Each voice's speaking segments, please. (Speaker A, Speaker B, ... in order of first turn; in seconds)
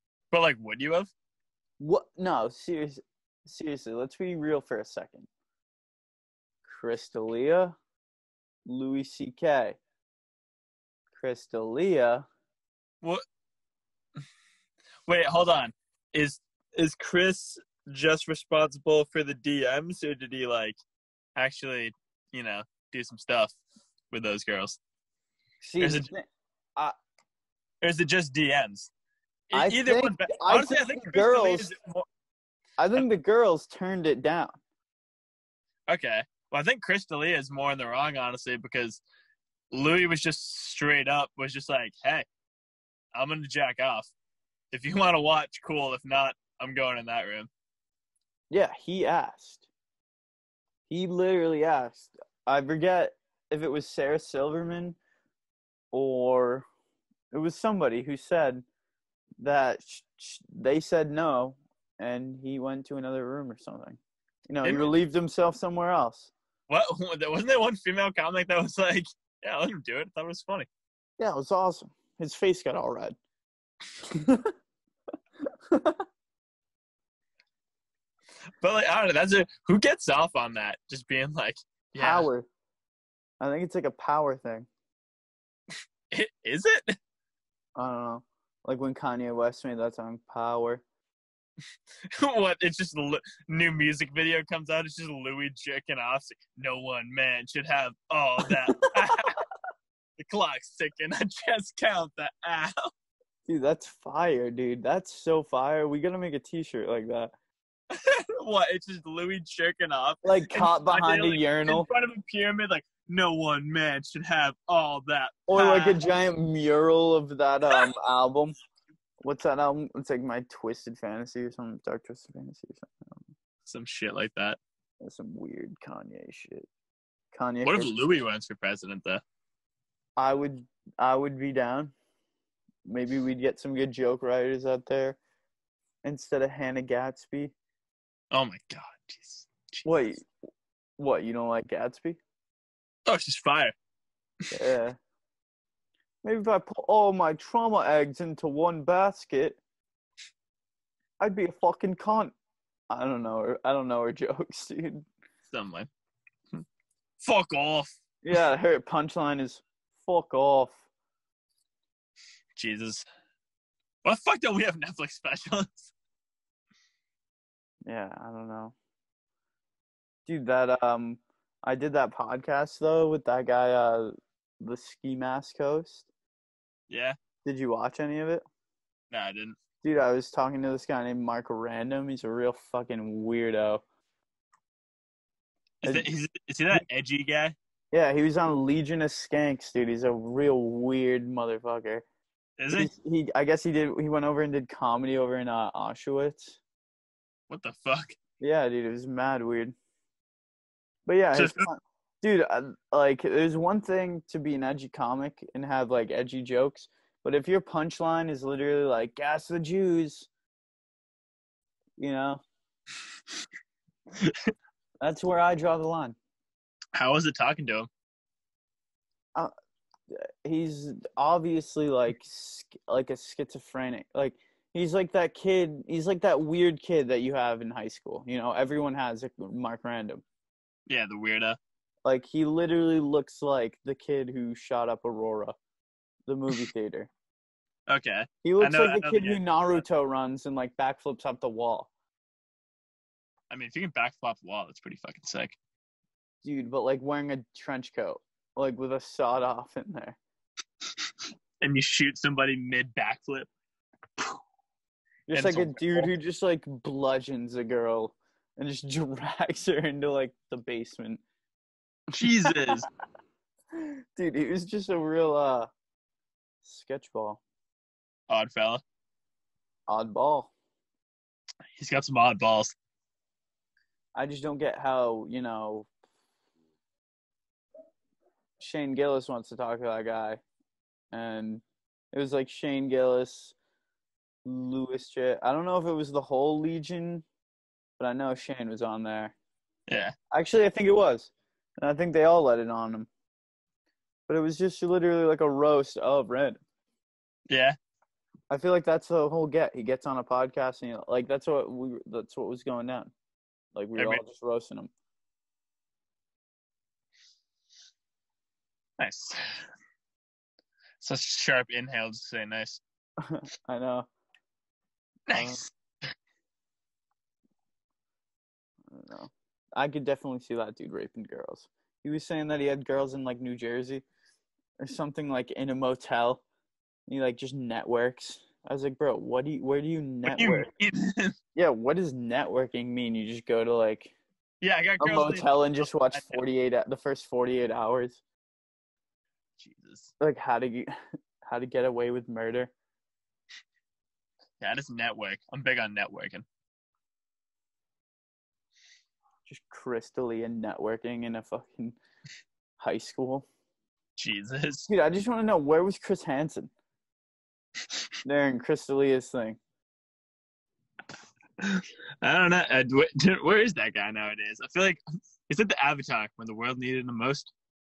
Speaker A: 0.3-1.1, 15.1-20.8, 21.4-23.6, 24.1-24.8, 25.8-26.1, 27.8-28.9, 29.5-32.1, 35.9-39.0, 39.7-42.3, 43.1-44.1, 44.7-47.5, 64.6-64.9, 66.7-70.7, 78.6-82.3, 86.1-87.0, 92.1-99.4, 100.2-102.9, 107.9-116.0, 123.7-124.6, 127.6-129.2, 138.3-140.0, 143.1-143.8, 155.5-155.9, 157.2-158.0, 162.6-163.1, 164.0-165.9, 176.9-177.2, 179.1-179.6, 185.8-187.6, 192.6-192.9, 197.5-198.2, 201.3-201.7, 214.2-214.5, 216.9-217.9, 230.9-231.6, 237.9-239.4, 243.5-245.6, 251.6-253.5, 255.3-256.1, 262.1-262.9, 268.3-268.8, 271.8-272.8, 289.9-290.1, 297.5-297.8, 304.0-304.2, 309.0-309.4, 311.0-312.8, 315.3-316.1, 330.3-331.4, 334.6-336.4, 339.6-340.1, 344.6-346.4, 354.2-354.9, 361.6-367.5
Speaker B: 1.8-5.3, 6.7-7.8, 8.7-9.8, 11.1-12.2, 25.6-26.9, 29.5-31.7, 32.8-34.6, 48.5-49.7, 50.9-55.0, 55.9-56.6, 57.3-58.6, 59.4-66.3, 71.2-73.2, 74.1-74.5, 75.7-76.0, 82.0-82.5, 83.4-84.7, 87.8-90.8, 98.5-99.3, 103.5-107.3, 110.2-111.9, 115.5-118.5, 119.2-123.3, 125.0-126.7, 127.3-127.9, 130.2-131.9, 132.9-135.2, 136.0-137.5, 139.8-140.2, 141.0-142.2, 144.5-145.0, 146.2-149.6, 151.2-152.3, 152.9-155.1, 158.2-160.8, 167.9-168.7, 170.3-176.1, 177.4-178.4, 179.8-183.8, 187.9-192.1, 192.7-196.6, 198.4-199.8, 201.1-210.3, 212.0-212.4, 215.0-216.2, 220.4-230.2, 232.1-235.6, 236.3-237.1, 238.4-241.9, 246.4-250.2, 255.3-261.2, 262.2-262.7, 263.8-265.7, 266.6-267.4, 269.9-270.5, 274.1-275.9, 278.6-280.4, 281.1-283.5, 284.4-287.2, 288.0-289.4, 290.3-293.1, 294.3-296.6, 298.5-303.1, 303.8-304.9, 313.2-314.1, 315.3-315.6, 318.9-324.1, 324.8-326.4, 327.1-330.7, 331.6-334.1, 335.0-338.2, 340.2-340.9, 341.4-342.7, 349.5-352.0, 352.8-353.5, 354.9-356.7, 358.2-359.6